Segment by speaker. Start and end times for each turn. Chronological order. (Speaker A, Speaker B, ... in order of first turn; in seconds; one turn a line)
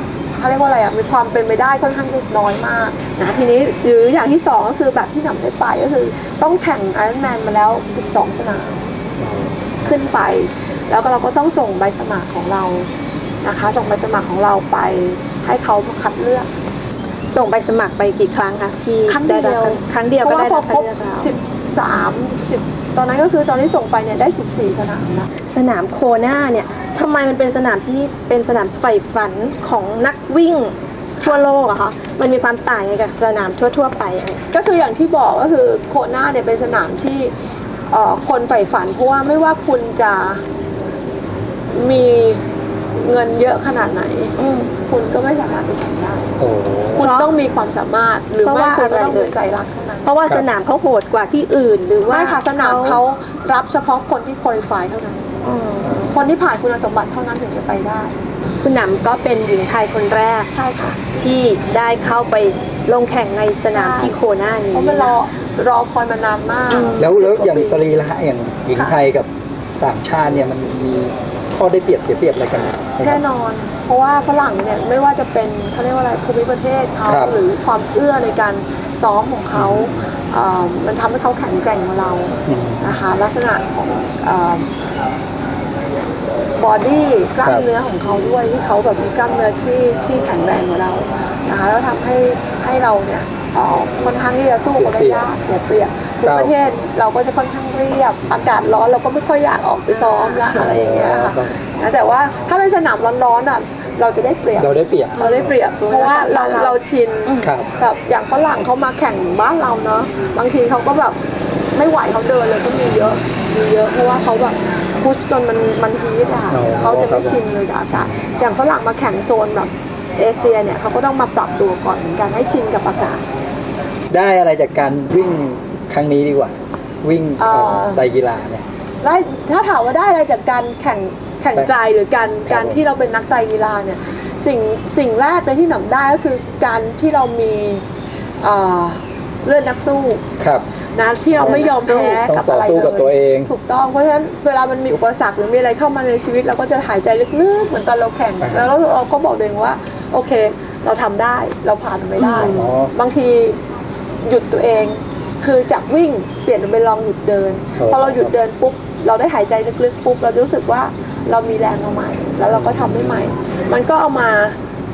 Speaker A: 0.3-8.9
Speaker B: 9.2-9.9
Speaker A: 9.8-12.9
Speaker A: 13.4-16.5
Speaker C: 17.3-21.3
Speaker A: 19.1-25.3
Speaker C: 25.4-34.4
Speaker A: 34.5-37.3
Speaker A: 37.9-40.4
Speaker A: 41.7-42.5
Speaker A: 43.0-46.3
Speaker C: 44.4-44.7
Speaker B: 46.4-47.1
Speaker A: 47.0-50.1
Speaker C: 47.0-47.3
Speaker C: 48.4-49.4
Speaker C: 50.0-53.0
Speaker A: 52.1-55.2
Speaker C: 55.4-56.2
Speaker B: 55.8-56.1
Speaker A: 56.0-58.2
Speaker C: 58.6-60.5
Speaker A: 60.5-61.0
Speaker C: 61.1-65.2
Speaker A: 63.7-64.1
Speaker A: 64.7-67.8
Speaker C: 66.7-67.1
Speaker B: 67.0-73.2
Speaker A: 73.0-84.7
Speaker B: 77.1-77.3
Speaker B: 79.5-80.0
Speaker B: 82.5-83.0
Speaker A: 86.5-111.2
Speaker B: 94.7-95.3
Speaker B: 96.2-96.5
Speaker C: 99.9-100.7
Speaker B: 100.6-101.5
Speaker B: 104.6-105.5
Speaker C: 105.2-107.5
Speaker B: 107.4-107.7
Speaker A: 111.7-123.2
Speaker B: 116.5-117.4
Speaker B: 117.9-118.2
Speaker B: 124.1-128.6
Speaker A: 127.4-128.0
Speaker A: 129.0-137.8
Speaker B: 132.4-132.8
Speaker A: 138.4-140.2
Speaker B: 140.4-140.7
Speaker A: 140.9-153.6
Speaker B: 141.3-143.5
Speaker C: 141.4-142.2
Speaker B: 148.4-148.7
Speaker C: 152.2-152.7
Speaker B: 152.3-152.9
Speaker A: 154.2-164.6
Speaker B: 157.8-158.3
Speaker B: 162.5-163.1